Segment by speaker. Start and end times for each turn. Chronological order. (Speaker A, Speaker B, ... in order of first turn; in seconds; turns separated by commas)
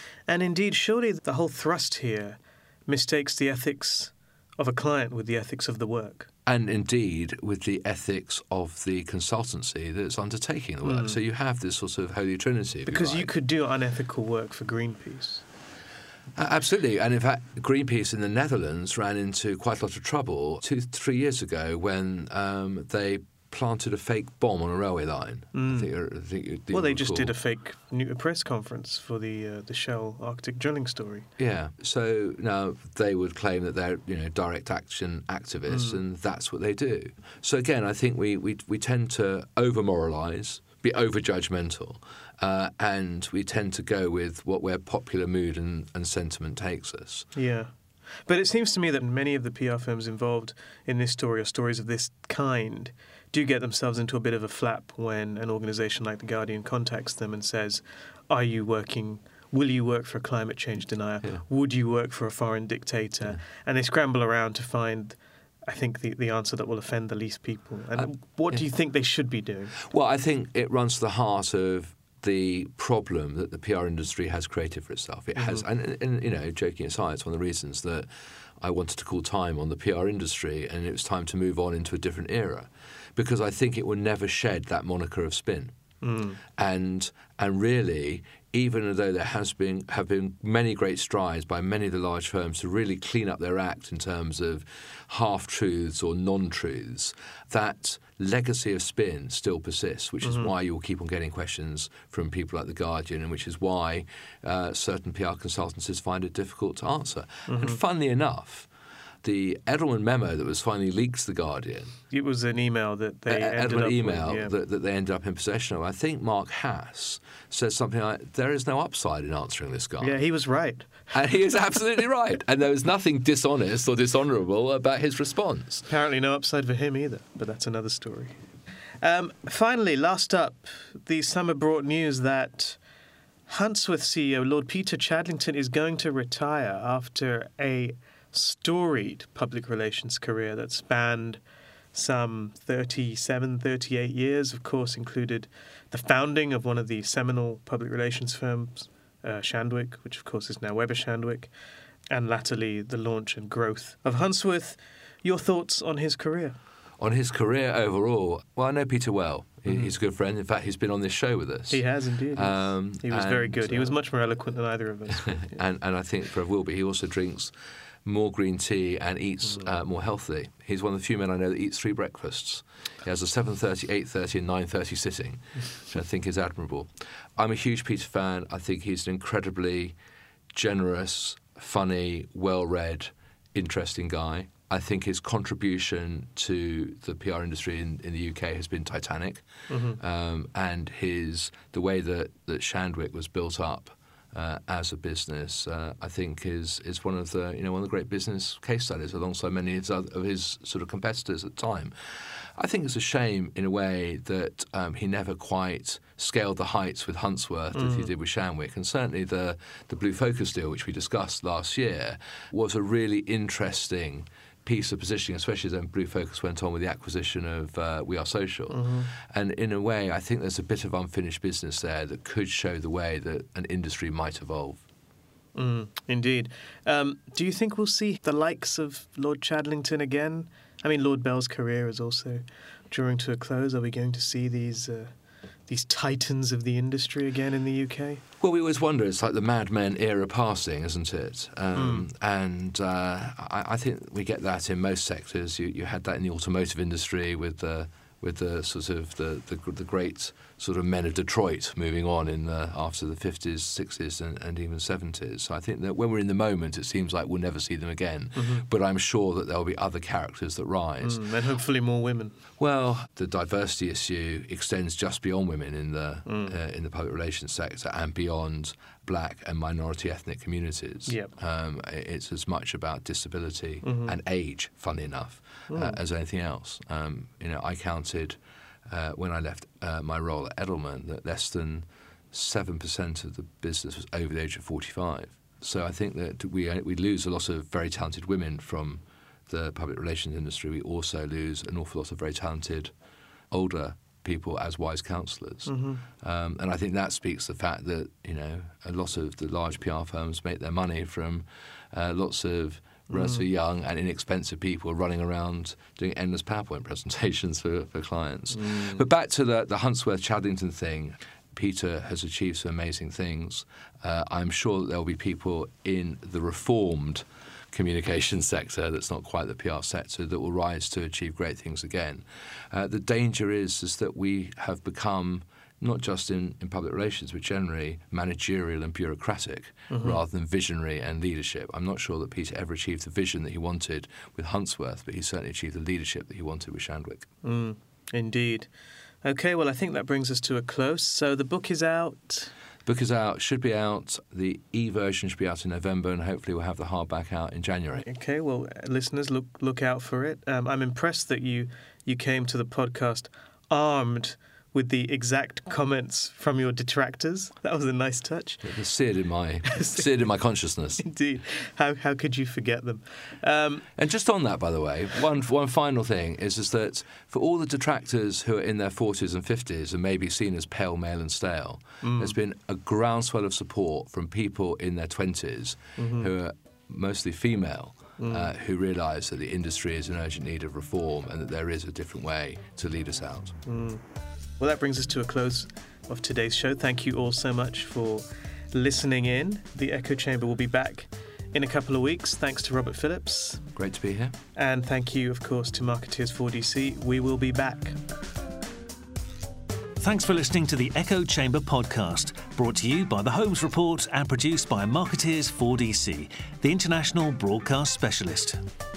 Speaker A: 0.3-6.3, Speaker B: 6.5-13.3, Speaker A: 10.8-11.2, Speaker A: 12.8-15.4, Speaker B: 16.4-27.3, Speaker A: 25.5-25.9, Speaker A: 26.7-31.3, Speaker B: 31.4-47.3, Speaker A: 35.7-36.0, Speaker A: 47.3-47.7, Speaker A: 48.2-69.8, Speaker B: 68.0-68.6, Speaker B: 69.8-78.1, Speaker A: 75.3-75.6, Speaker B: 78.6-85.7, Speaker A: 86.0-86.4, Speaker B: 86.6-108.7, Speaker A: 100.2-100.5, Speaker A: 107.5-107.8, Speaker B: 109.2-112.0, Speaker A: 112.1-114.5, Speaker B: 113.3-120.2, Speaker A: 120.0-121.1, Speaker B: 121.1-125.9, Speaker A: 125.9-128.4, Speaker A: 129.0-132.8, Speaker A: 133.5-141.4, Speaker A: 141.9-151.5, Speaker A: 152.1-156.6, Speaker B: 157.0-161.8, Speaker A: 161.7-165.6, Speaker B: 162.3-164.0, Speaker B: 165.2-167.5, Speaker B: 168.0-179.9, Speaker B: 180.5-189.4, Speaker A: 189.7-190.0, Speaker B: 190.0-201.9, Speaker B: 202.6-224.8, Speaker A: 207.7-208.1, Speaker A: 218.7-219.1, Speaker A: 225.5-235.1, Speaker A: 235.7-238.2, Speaker B: 238.4-261.2, Speaker A: 241.7-242.1, Speaker A: 258.4-258.6, Speaker A: 261.0-262.4, Speaker B: 262.6-292.9, Speaker A: 266.2-266.5, Speaker A: 273.8-274.1, Speaker A: 275.7-276.0, Speaker B: 293.5-337.3, Speaker A: 295.6-296.0, Speaker A: 303.1-303.4, Speaker A: 308.5-309.0, Speaker A: 329.9-330.2, Speaker A: 337.4-338.7, Speaker A: 339.2-342.5, Speaker B: 342.9-348.1, Speaker A: 348.0-358.7, Speaker B: 358.6-361.0, Speaker A: 359.6-360.0, Speaker A: 361.0-363.9, Speaker B: 363.9-383.6, Speaker A: 372.0-372.4, Speaker A: 376.0-376.3, Speaker A: 378.2-378.5, Speaker A: 383.6-384.0, Speaker A: 384.6-393.6, Speaker B: 393.8-394.3, Speaker A: 394.5-398.0, Speaker C: 400.0-408.6